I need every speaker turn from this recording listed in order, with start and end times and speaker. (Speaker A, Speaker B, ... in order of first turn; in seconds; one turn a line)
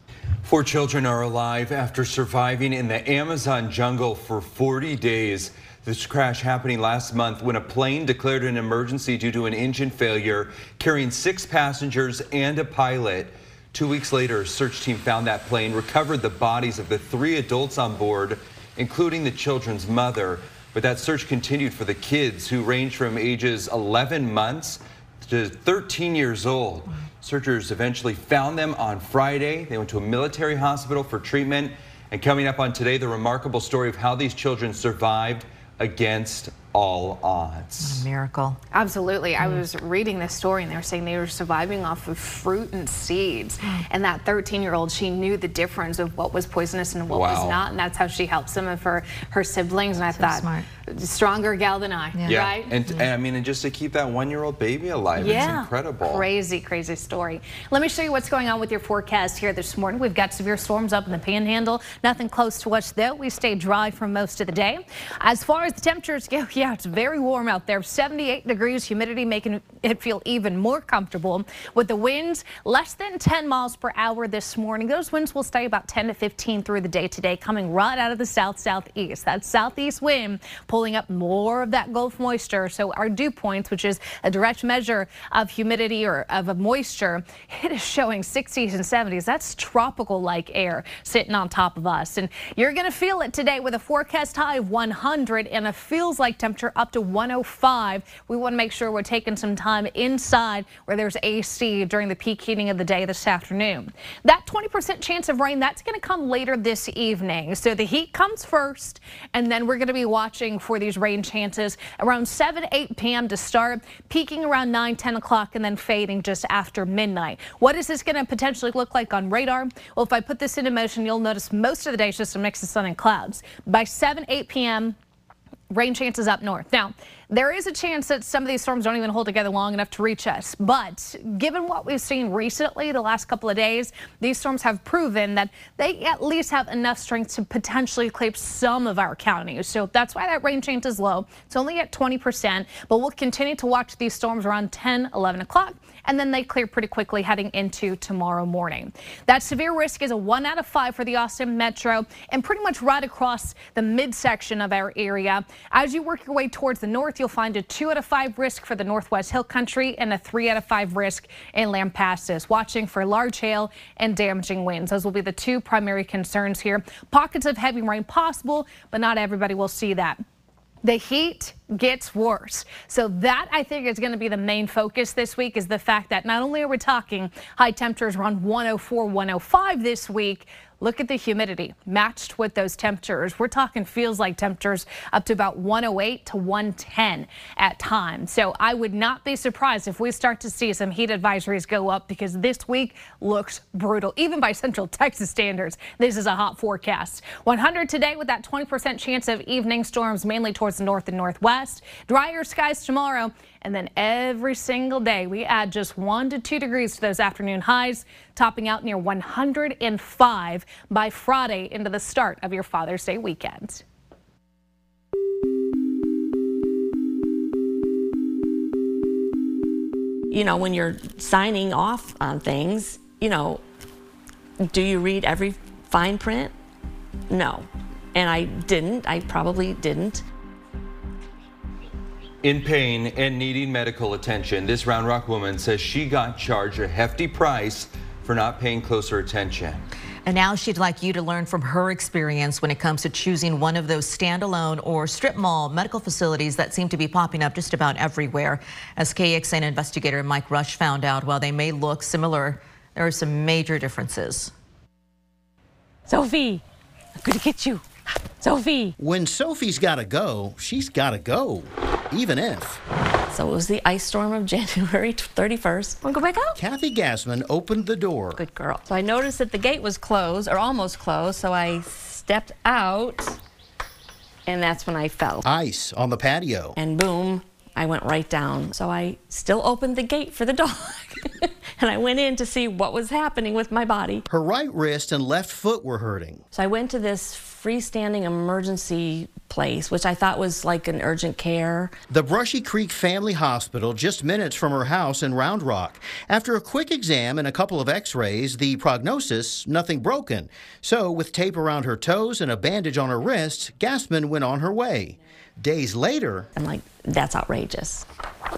Speaker A: 0.4-38.1
Speaker B: 37.8-38.6
Speaker C: 38.7-52.7
Speaker A: 47.1-47.6
Speaker B: 50.2-50.7
Speaker A: 52.3-56.3
Speaker C: 55.2-125.0
Speaker B: 55.3-55.5
Speaker C: 125.7-170.2
Speaker C: 170.8-213.8
Speaker D: 220.3-223.6
Speaker D: 224.7-226.6
Speaker D: 227.3-230.2
Speaker A: 232.4-239.8
Speaker B: 240.3-254.5
Speaker D: 256.1-256.6
Speaker D: 257.2-257.9
Speaker D: 258.4-258.9
Speaker E: 259.0-262.8
Speaker D: 263.3-266.6
Speaker E: 266.6-268.4
Speaker D: 268.3-273.4
Speaker D: 274.5-275.4
Speaker E: 275.4-276.8
Speaker D: 276.8-284.3
Speaker E: 284.3-286.4
Speaker D: 286.5-291.9
Speaker E: 292.1-306.5
Speaker D: 306.5-308.1